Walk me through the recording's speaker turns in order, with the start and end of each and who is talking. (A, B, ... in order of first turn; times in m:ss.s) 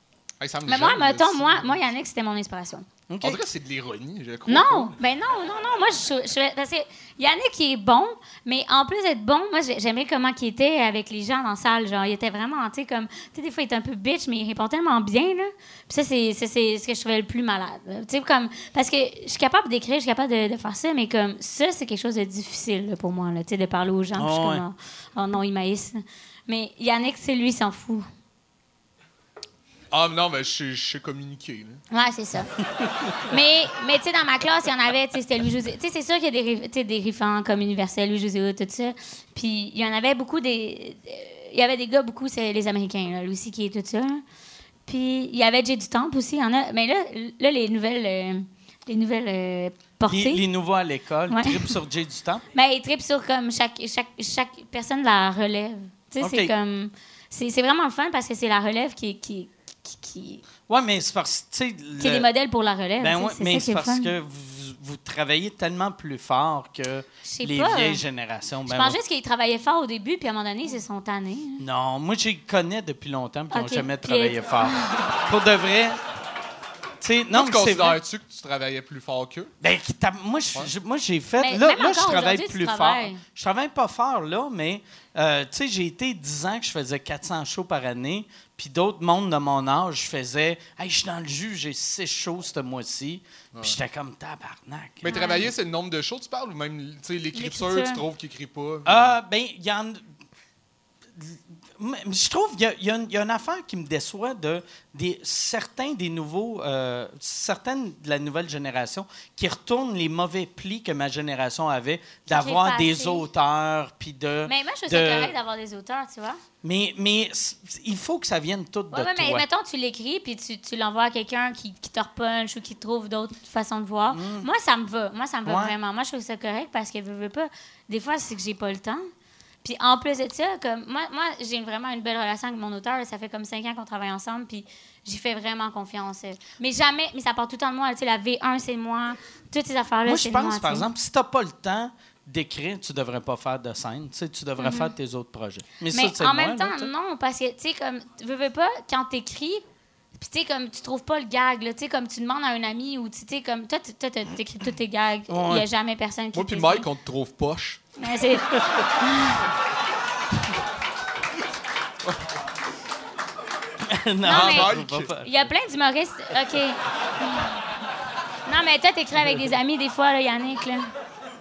0:00.4-0:01.7 A
0:00.7-0:02.8 B
0:03.1-0:03.4 C
0:03.2-0:04.9 A
0:04.5-0:28.1 B
0:24.2-0:24.6 C
0:29.9-0:31.8 A
0:31.9-0:32.6 B
0:33.1-0:44.2 B
0:44.8-0:50.4 B
0:50.1-0:52.4 C
0:51.3-0:51.8 B
0:52.5-1:00.4 B
0:56.2-0:56.5 C
1:00.7-1:02.3 C
1:02.0-1:04.1 B
1:03.0-1:09.0 C
1:07.2-1:08.0 B
1:08.7-1:11.6 B
1:11.6-1:16.0 C
1:13.5-1:15.1 B
1:17.0-1:18.0 C
1:17.3-1:19.5 A
1:19.6-1:35.4 C
1:21.4-1:23.2 B
1:35.0-1:39.1 A
1:35.1-1:35.5 B
1:37.3-1:38.0 B
1:38.8-1:40.0 C
1:41.2-1:55.3 C
1:52.3-1:53.2 B
1:54.4-1:56.4 B
1:56.6-1:59.4 C
1:58.9-2:09.0 B
2:04.1-2:04.5 C
2:05.4-2:05.7 C
2:09.6-2:20.8 B
2:20.0-2:26.9 C
2:24.6-2:24.9 B
2:25.9-2:29.6 B
2:30.2-2:36.9 B
2:35.3-2:35.7 C
2:36.3-2:37.8 A
2:38.0-2:39.5 B
2:43.9-2:45.3 C
2:44.2-2:45.1 A
2:44.2-2:46.8 B
2:48.4-2:50.9 B